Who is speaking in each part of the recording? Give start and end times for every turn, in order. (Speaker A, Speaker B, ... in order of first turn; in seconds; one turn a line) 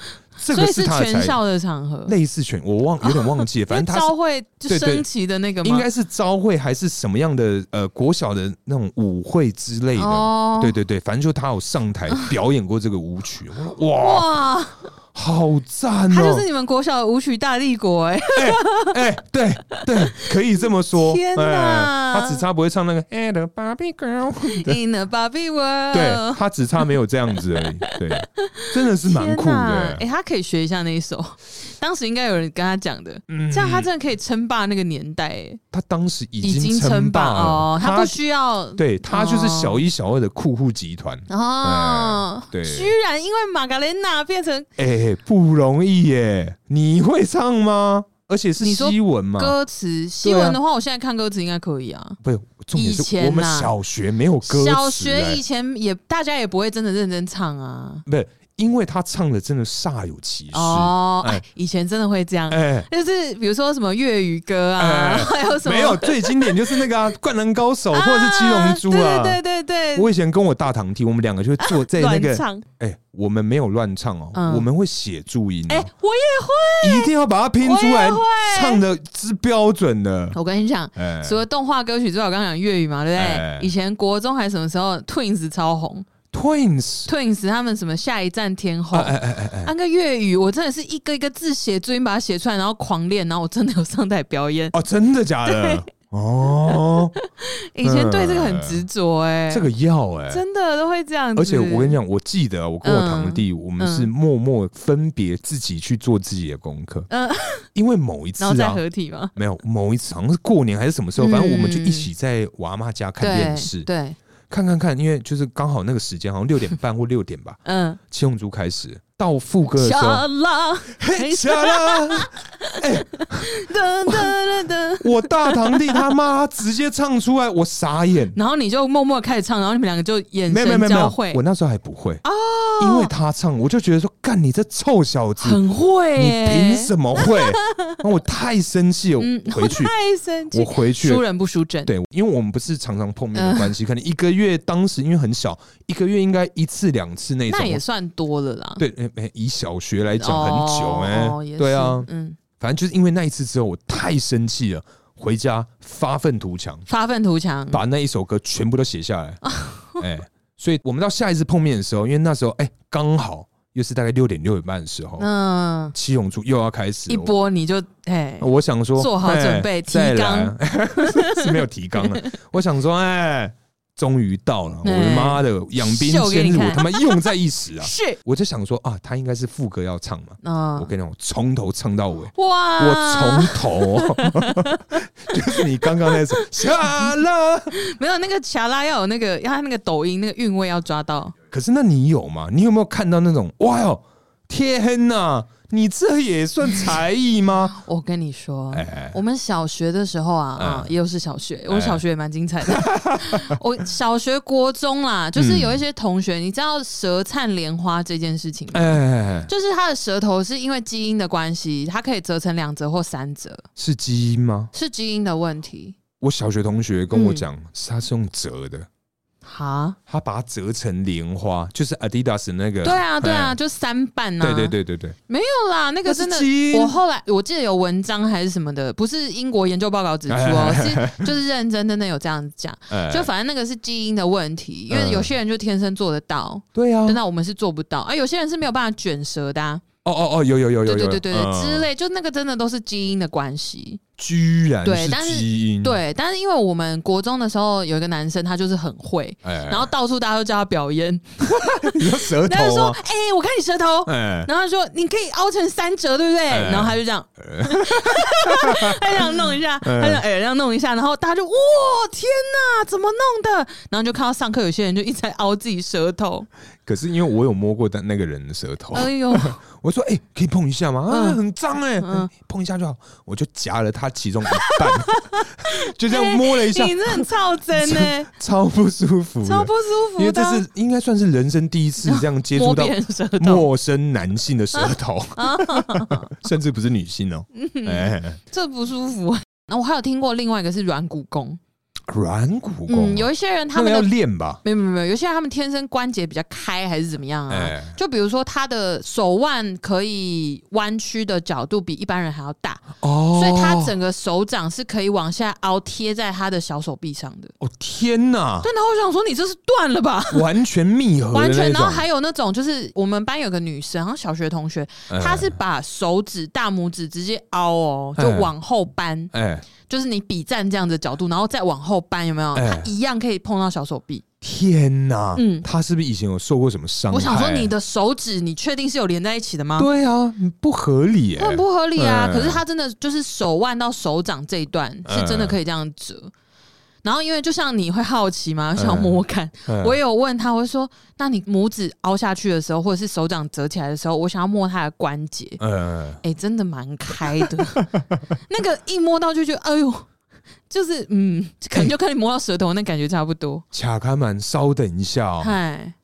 Speaker A: 0.4-1.4
Speaker B: 0.5-2.1
Speaker A: 2.1-4.1
Speaker B: 3.0-5.9
Speaker A: 4.7-5.1
Speaker A: 5.6-14.3
Speaker B: 10.0-10.8
Speaker B: 14.0-14.9
Speaker A: 15.1-16.4
Speaker B: 16.1-19.0
Speaker A: 18.4-24.8
Speaker B: 19.7-20.3
Speaker B: 20.9-22.4
Speaker B: 24.4-26.4
Speaker A: 25.9-30.0
Speaker B: 27.6-35.6
Speaker A: 33.3-33.9
Speaker A: 35.7-38.2
Speaker B: 36.4-39.8
Speaker A: 38.8-42.9
Speaker B: 41.3-44.7
Speaker A: 44.8-49.6
Speaker B: 48.6-52.2
Speaker A: 50.2-50.6
Speaker A: 52.2-55.4
Speaker B: 52.7-53.7
Speaker B: 54.4-58.0
Speaker A: 58.1-61.4
Speaker B: 60.5-66.9
Speaker A: 62.5-62.9
Speaker A: 64.8-69.4
Speaker B: 67.9-70.1
Speaker A: 70.0-75.9
Speaker B: 71.6-72.6
Speaker B: 74.3-74.7
Speaker B: 75.7-77.1
Speaker A: 76.8-80.4
Speaker B: 77.6-78.8
Speaker B: 80.3-86.1
Speaker A: 81.0-81.4
Speaker A: 83.2-83.7
Speaker A: 86.3-87.1
Speaker B: 87.1-94.8
Speaker A: 88.9-89.7
Speaker A: 94.7-97.1
Speaker B: 95.4-95.9
Speaker B: 96.7-99.7
Speaker A: 97.8-98.9
Speaker A: 99.5-100.4
Speaker B: 100.3-102.0
Speaker A: 101.4-107.1
Speaker B: 102.8-104.1
Speaker B: 107.1-107.7
Speaker A: 107.8-108.8
Speaker B: 108.4-109.3
Speaker A: 109.3-113.9
Speaker B: 111.2-112.1
Speaker B: 113.2-114.2
Speaker A: 114.5-120.3
Speaker B: 117.7-118.0
Speaker B: 119.7-126.1
Speaker A: 120.9-123.5
Speaker A: 124.0-124.4
Speaker A: 125.0-128.4
Speaker B: 128.3-131.4
Speaker A: 130.5-132.2
Speaker B: 132.2-133.1
Speaker A: 132.8-135.6
Speaker B: 135.4-138.0
Speaker A: 136.2-139.9
Speaker B: 139.2-141.9
Speaker A: 140.5-141.2
Speaker A: 141.9-147.8
Speaker B: 143.3-143.7
Speaker B: 147.5-148.8
Speaker A: 148.8-152.1
Speaker B: 150.2-152.4
Speaker A: 152.6-156.9
Speaker B: 156.9-157.8
Speaker A: 157.7-159.4
Speaker B: 159.4-160.0
Speaker A: 160.0-165.3
Speaker B: 165.2-166.0
Speaker A: 165.9-167.3
Speaker B: 167.1-172.4
Speaker A: 168.4-187.8
Speaker B: 174.8-178.2
Speaker B: 180.4-180.9
Speaker B: 182.3-187.1
Speaker B: 187.7-191.3
Speaker A: 191.5-197.8
Speaker B: 197.8-213.7
Speaker A: 198.7-199.2
Speaker A: 200.6-200.9
Speaker A: 201.7-202.0
Speaker A: 202.7-203.6
Speaker A: 205.4-205.8
Speaker A: 208.7-209.5
Speaker A: 213.8-214.7
Speaker B: 214.7-216.0
Speaker A: 216.2-218.9
Speaker B: 217.1-217.5
Speaker B: 219.4-220.0
Speaker A: 220.1-223.6
Speaker B: 222.8-224.8
Speaker A: 224.4-225.2
Speaker B: 225.3-239.8
Speaker A: 226.1-227.0
Speaker A: 230.3-231.3
Speaker A: 232.9-233.3
Speaker A: 234.9-235.3
Speaker A: 236.8-237.2
Speaker A: 240.1-241.9
Speaker B: 240.9-244.0
Speaker A: 244.2-246.0
Speaker B: 244.8-266.5
Speaker A: 249.4-249.9
Speaker A: 251.5-253.0
Speaker A: 254.1-254.5
Speaker A: 256.5-260.2
Speaker A: 266.9-288.4
Speaker B: 268.9-269.6
Speaker B: 271.1-271.4
Speaker B: 272.0-272.3
Speaker B: 274.5-278.3
Speaker B: 279.4-280.6
Speaker B: 282.1-283.7
Speaker B: 284.8-286.5
Speaker B: 287.5-291.6
Speaker A: 292.1-294.6
Speaker B: 292.9-294.1
Speaker B: 294.6-307.6
Speaker A: 297.5-298.0
Speaker A: 303.0-303.9
Speaker A: 307.6-308.7
Speaker B: 308.6-310.5
Speaker A: 310.3-312.1
Speaker B: 311.3-319.3
Speaker A: 315.1-315.6
Speaker A: 318.2-318.5
Speaker A: 319.3-319.7
Speaker B: 319.9-324.2
Speaker A: 322.6-322.9
Speaker A: 324.4-327.7
Speaker B: 325.4-325.7
Speaker B: 327.1-329.9
Speaker A: 329.8-332.6
Speaker B: 331.4-336.3
Speaker A: 335.1-335.6
Speaker B: 337.0-345.6
Speaker A: 338.8-340.0
Speaker A: 345.6-346.2
Speaker B: 346.2-347.9
Speaker A: 347.3-348.2
Speaker B: 348.5-350.1
Speaker B: 350.7-353.6
Speaker A: 353.7-355.6
Speaker B: 355.4-356.0